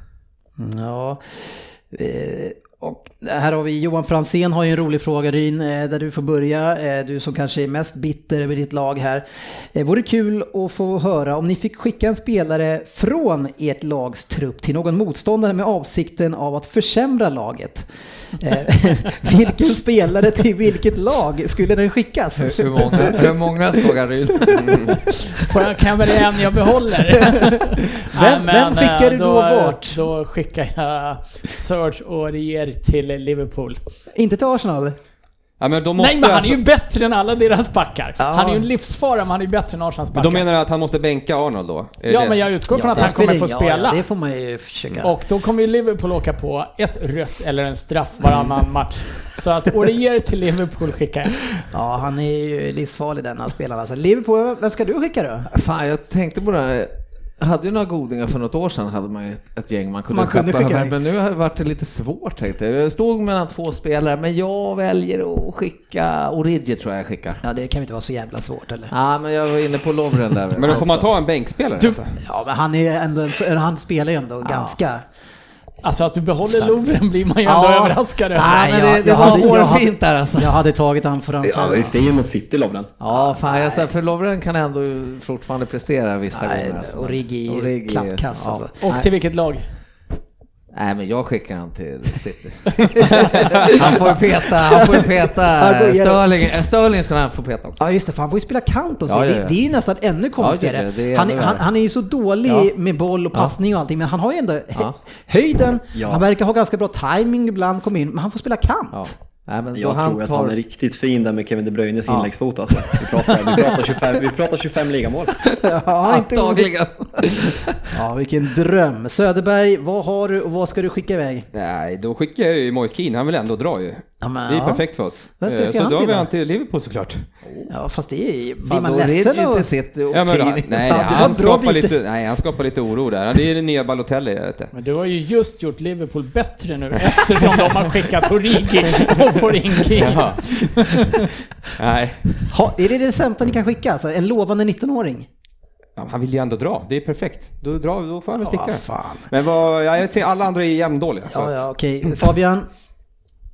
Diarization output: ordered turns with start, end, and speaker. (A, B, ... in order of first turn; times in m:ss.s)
0:00.6-0:23.3 A
0:22.4-0:25.2 B
0:24.6-0:24.9 C
0:25.4-0:33.8 D
0:28.1-0:30.0 A
0:34.1-0:35.0 A
0:35.6-0:36.6 C
0:36.0-0:40.5 D
0:38.2-0:38.7 A
0:40.1-0:42.4 C
0:42.1-0:44.0 D
0:42.7-0:45.1 A
0:45.0-0:51.4 D
0:51.7-0:55.5 A
0:55.5-1:07.4 B
1:00.1-1:00.9 A
1:07.4-1:08.9 A
1:08.9-1:11.1 B
1:10.6-1:12.2 C
1:12.2-1:15.0 A
1:14.4-1:14.8 B
1:15.8-1:19.4 D
1:17.4-1:20.6 B
1:18.4-1:21.9 A
1:21.4-1:22.9 E
1:23.0-1:29.1 B
1:23.1-1:23.9 A
1:26.3-1:28.7 A
1:28.8-1:29.7 D
1:30.7-1:37.8 B
1:32.9-1:34.2 A
1:34.7-1:36.5 A
1:37.8-1:49.1 A
1:39.1-1:39.6 B
1:40.4-1:41.6 B
1:45.9-1:46.2 E
1:48.9-1:50.6 B
1:49.7-1:55.4 E
1:52.1-1:53.9 B
1:55.6-1:57.3 A
1:56.0-1:57.8 B
1:57.9-2:01.5 A
2:01.5-2:07.2 C
2:04.2-2:04.8 A
2:05.4-2:06.3 A
2:07.4-2:07.7 B
2:07.7-2:09.7 A
2:08.6-2:11.4 B
2:10.1-2:14.7 C
2:10.8-2:12.0 A
2:14.7-2:21.3 D
2:20.0-2:20.4 C
2:21.8-2:22.4 C
2:22.5-2:25.3 A
2:26.0-2:31.6 C
2:28.4-2:29.3 A
2:31.3-2:32.7 A